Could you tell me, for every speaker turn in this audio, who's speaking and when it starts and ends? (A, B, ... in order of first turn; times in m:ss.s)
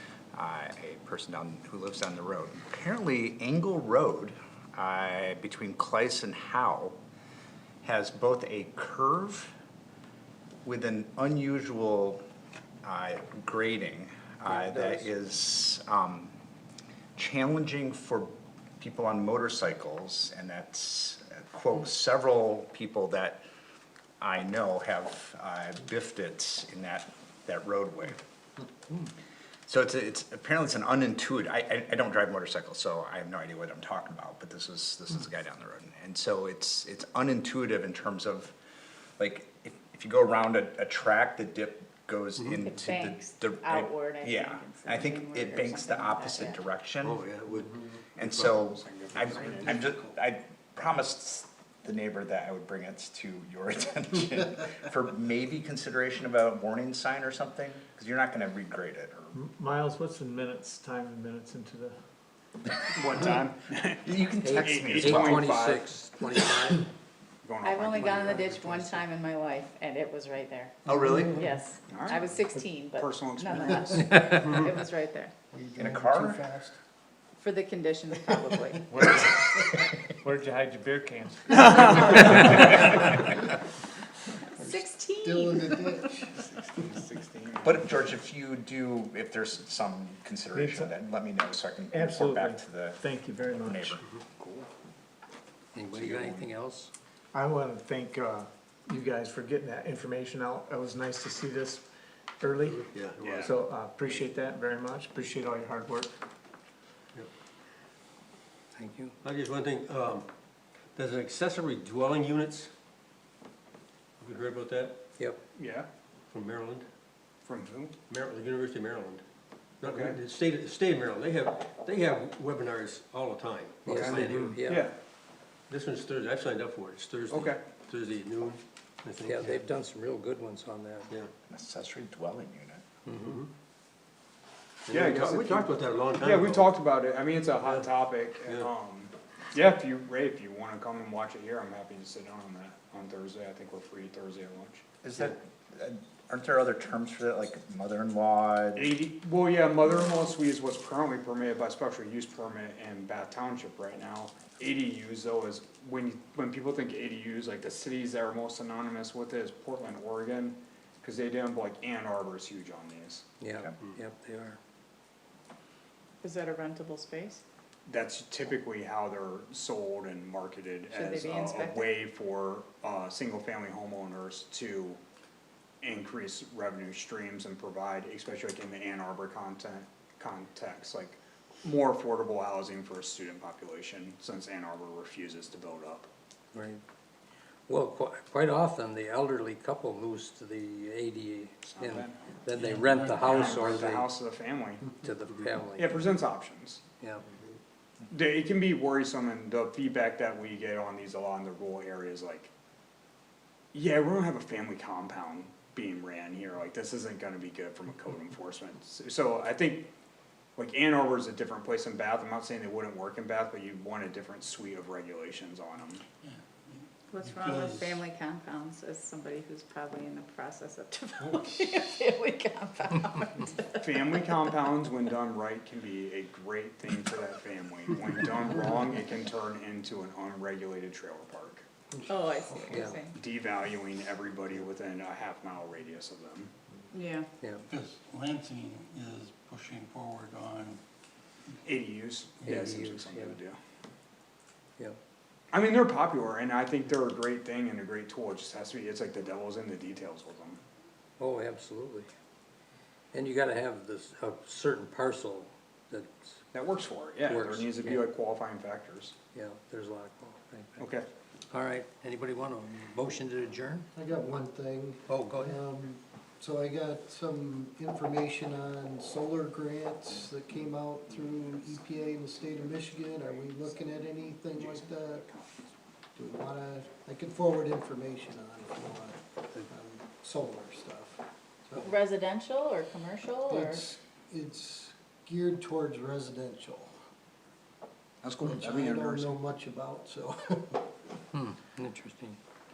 0:00.3-0:07.0 A
0:07.8-0:09.5 A
0:10.6-0:12.2 A
0:12.8-0:16.4 A
0:14.5-0:15.1 B
0:17.2-0:23.4 A
0:24.2-0:28.2 A
0:29.7-0:38.5 A
0:39.2-0:47.2 A
0:42.6-0:46.6 C
0:47.0-0:48.6 D
0:48.2-0:59.4 A
0:48.6-0:49.8 E
0:59.3-1:02.0 F
1:03.0-1:05.9 E
1:04.0-1:05.5 A
1:04.4-1:06.9 B
1:07.4-1:08.8 E
1:07.6-1:15.3 C
1:10.9-1:11.5 A
1:11.9-1:12.3 E
1:13.0-1:13.8 E
1:14.0-1:14.5 B
1:15.5-1:16.8 G
1:15.8-1:16.4 A
1:17.4-1:18.9 C
1:18.9-1:23.4 F
1:21.5-1:22.5 E
1:24.6-1:26.0 C
1:24.7-1:26.4 G
1:26.4-1:27.8 E
1:27.6-1:33.0 A
1:30.5-1:31.0 F
1:31.9-1:34.0 F
1:33.6-1:34.0 A
1:34.4-1:34.7 E
1:35.7-1:36.9 B
1:35.9-1:36.5 E
1:37.3-1:41.9 F
1:42.4-1:42.8 F
1:42.7-1:43.5 D
1:43.2-1:43.5 E
1:43.4-1:46.2 F
1:48.8-1:49.2 B
1:49.2-1:50.3 D
1:51.0-1:52.7 D
1:54.2-1:55.0 D
1:55.6-1:55.9 E
1:56.3-1:56.8 D
1:57.4-1:58.0 E
1:58.1-1:59.2 D
1:59.8-2:04.6 D
1:59.8-2:00.2 E
2:03.8-2:04.9 B
2:03.9-2:05.0 E
2:05.7-2:09.6 D
2:07.3-2:07.6 E
2:09.2-2:11.1 B
2:11.5-2:12.8 A
2:13.0-2:13.4 B
2:14.9-2:16.7 D
2:14.9-2:24.8 E
2:25.0-2:28.9 A
2:28.8-2:43.2 E
2:43.4-2:44.6 B
2:46.2-2:47.4 C
2:47.9-2:55.0 E
2:50.9-2:52.0 C
2:55.8-3:06.1 E
3:06.5-3:06.8 B
3:07.7-3:14.1 B
3:11.7-3:12.2 E
3:12.6-3:13.5 H
3:13.2-3:14.8 E
3:14.9-3:15.9 B
3:15.8-3:16.8 E
3:18.1-3:22.5 E
3:23.7-3:29.9 E
3:30.6-3:36.0 E
3:36.2-3:38.0 H
3:37.1-3:44.5 C
3:43.8-3:51.6 E
3:52.1-3:53.2 C
3:52.7-3:53.0 B
3:53.1-3:56.5 E
3:56.9-3:57.3 C
3:57.7-4:00.8 H
4:01.6-4:03.6 E
4:02.4-4:03.4 B
4:05.5-4:10.6 E
4:11.2-4:12.1 B
4:13.1-4:16.4 B
4:16.5-4:19.1 E
4:17.2-4:18.1 B
4:19.3-4:20.9 B
4:20.8-4:21.1 E
4:21.5-4:23.9 B
4:23.9-4:35.2 G
4:25.1-4:25.6 B
4:32.4-4:35.7 E
4:36.2-4:41.9 G
4:41.8-4:43.8 C
4:43.5-4:46.9 G
4:48.2-4:49.4 A
4:48.4-4:50.8 G
4:51.3-4:52.4 B